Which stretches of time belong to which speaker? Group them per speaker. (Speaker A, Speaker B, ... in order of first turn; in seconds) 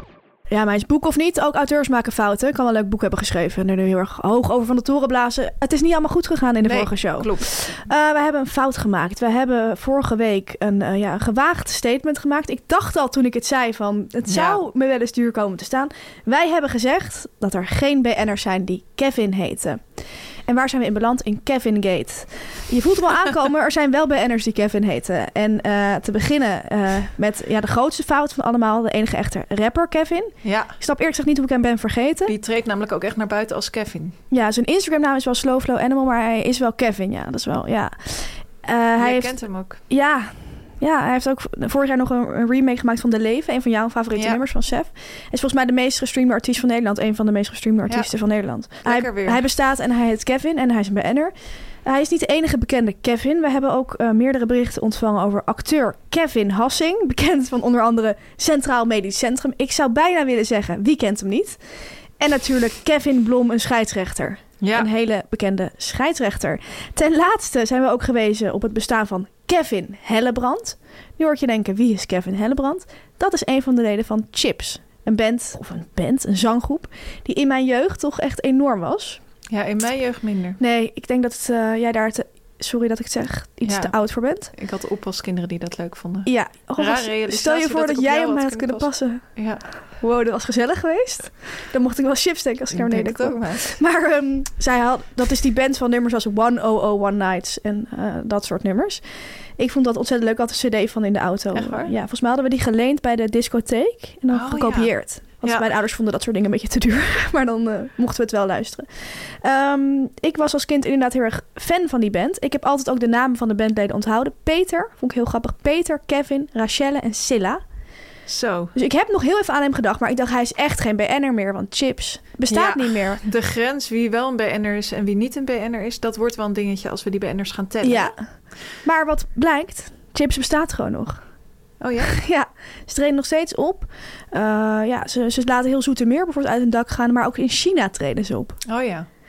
Speaker A: 0.5-19.8, 20.5-32.3, 34.3-51.3, 51.8-61.6, 62.2-79.2, 80.6-84.5, 86.2-89.2, 89.9-99.0, 99.6-117.6, 118.7-123.2, 127.8-128.3, 128.8-131.2, 132.1-138.6
Speaker B: 6.6-7.5, 14.3-14.6, 30.4-30.8, 32.3-34.2, 39.0-39.8, 44.1-44.4, 48.8-49.5, 64.6-64.9, 79.5-80.6, 83.7-84.0, 84.5-89.6, 92.7-93.8, 101.5-101.9, 104.3-105.7, 118.3-118.7, 122.5-128.1, 131.8-132.2, 138.7-139.1